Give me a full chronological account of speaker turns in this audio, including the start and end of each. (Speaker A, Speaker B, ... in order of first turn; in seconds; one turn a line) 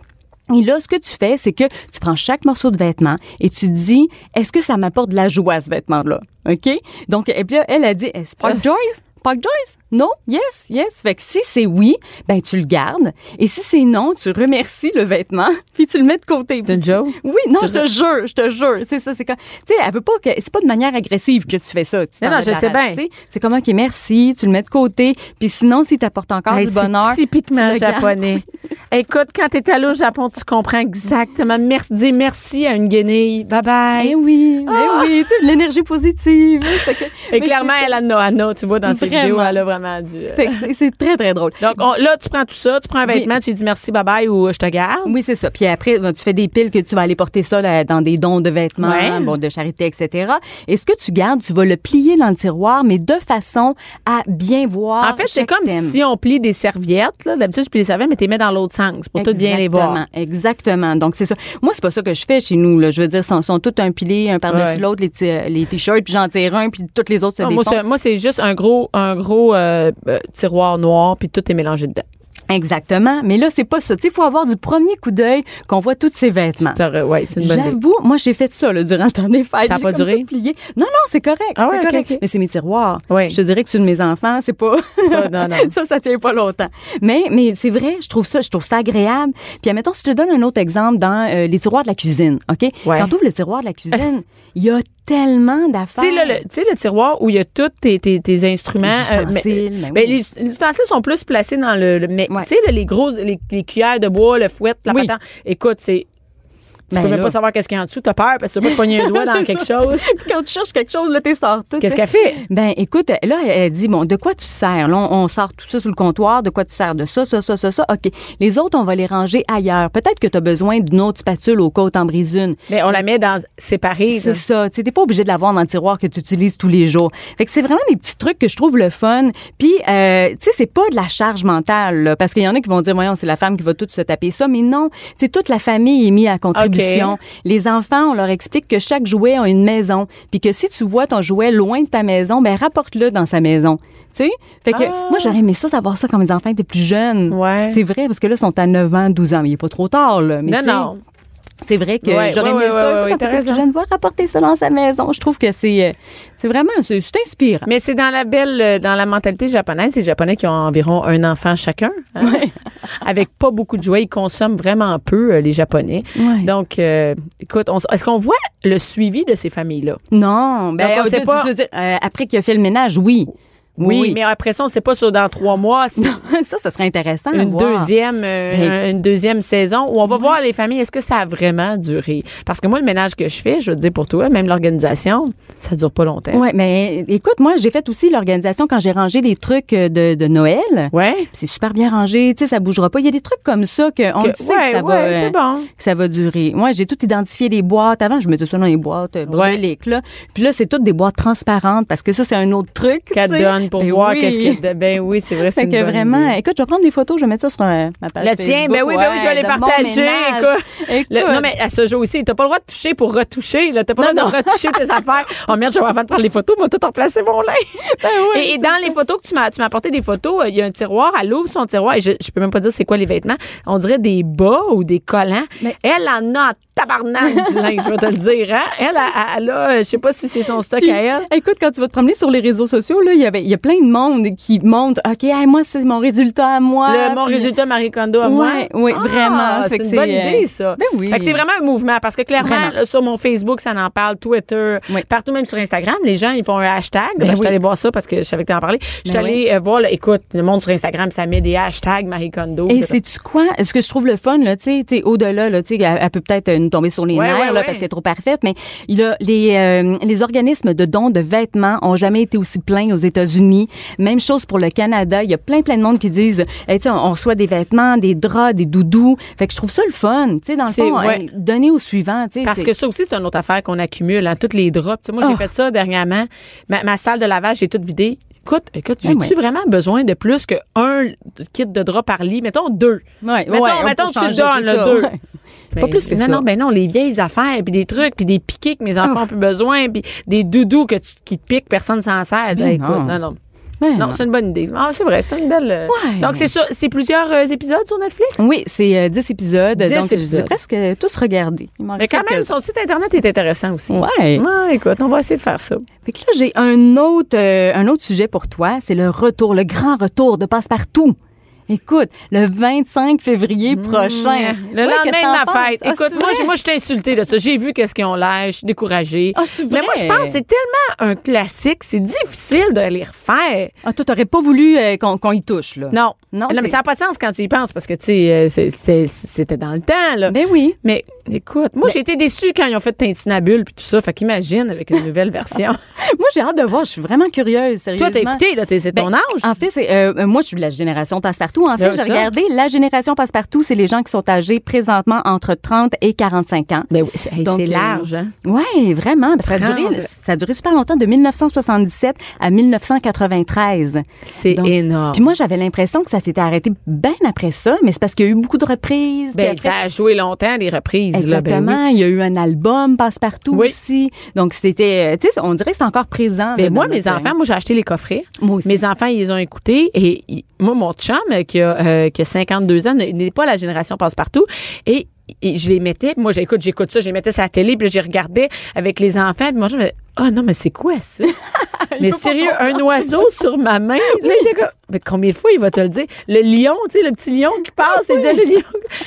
Speaker A: 0.5-28.2
Speaker B: 16.6-17.8
Speaker B: 22.2-23.0
Speaker B: 26.5-34.1
Speaker A: 34.0-37.9
Speaker B: 34.7-35.3
Speaker B: 36.8-40.6
Speaker A: 38.9-39.6
Speaker A: 40.3-41.8
Speaker B: 41.6-45.1
Speaker A: 43.0-43.3
Speaker A: 45.0-56.0
Speaker B: 48.8-49.3
Speaker B: 55.0-60.0
Speaker A: 59.1-67.8
Speaker B: 64.5-64.8
Speaker B: 67.4-72.0
Speaker A: 72.5-76.8
Speaker B: 76.6-77.7
Speaker A: 77.4-96.4
Speaker B: 79.7-80.3
Speaker B: 81.5-82.2
Speaker B: 83.1-83.3
Speaker B: 85.0-85.7
Speaker B: 92.8-93.1
Speaker B: 96.0-106.1
Speaker A: 98.8-100.2
Speaker A: 104.9-105.1
Speaker A: 106.9-107.3
Speaker B: 106.9-110.2
Speaker A: 108.7-123.0
Speaker B: 111.8-112.4
Speaker B: 122.7-124.4
Speaker A: 124.1-150.9
Speaker B: 136.5-137.1
Speaker B: 144.7-145.4
Speaker B: 147.3-147.8
Speaker B: 150.5-151.0
Speaker A: 151.6-157.7
Speaker B: 152.0-153.6
Speaker B: 157.7-162.4
Speaker A: 162.2-162.6
Speaker B: 163.0-170.0
Speaker A: 166.2-166.5
Speaker A: 170.1-174.2
Speaker B: 170.8-171.5
Speaker B: 173.8-176.2
Speaker A: 176.0-177.9
Speaker B: 177.3-186.4
Speaker A: 180.1-180.3
Speaker A: 186.3-204.6
Speaker B: 190.9-191.3
Speaker B: 194.2-195.7
Speaker B: 199.3-199.6
Speaker B: 203.1-206.3
Speaker A: 205.5-211.5
Speaker B: 208.2-231.3
Speaker A: 214.0-214.9
Speaker A: 217.8-218.9
Speaker A: 227.2-227.9
Speaker A: 230.8-237.5
Speaker B: 236.9-252.9
Speaker A: 238.2-241.4
Speaker A: 242.4-242.7
Speaker A: 247.2-247.5
Speaker A: 249.0-249.4
Speaker A: 252.7-272.7
Speaker B: 257.1-257.8
Speaker B: 270.7-271.2
Speaker B: 272.4-285.1
Speaker A: 279.0-279.3
Speaker A: 283.2-285.2
Speaker B: 285.7-293.4
Speaker A: 285.8-286.4
Speaker A: 292.5-293.2
Speaker A: 293.8-294.2
Speaker B: 294.0-298.4
Speaker A: 295.9-296.5
Speaker A: 298.4-302.5
Speaker B: 299.8-300.5
Speaker B: 302.0-305.8
Speaker A: 303.9-304.4
Speaker A: 306.0-311.1
Speaker A: 311.7-316.5
Speaker B: 313.7-323.7
Speaker A: 319.3-320.4
Speaker A: 323.8-326.7
Speaker B: 325.9-335.8
Speaker A: 330.3-330.8
Speaker A: 336.0-338.4
Speaker B: 338.0-339.5
Speaker A: 338.9-346.9
Speaker B: 341.8-342.3
Speaker B: 346.9-348.3
Speaker A: 347.4-359.7
Speaker B: 349.4-350.1
Speaker B: 354.3-355.3
Speaker B: 359.3-361.8
Speaker A: 361.1-367.3
Speaker B: 366.6-381.3
Speaker A: 368.4-368.8
Speaker A: 381.3-383.2
Speaker B: 382.0-388.9
Speaker A: 384.1-384.5
Speaker A: 387.9-388.3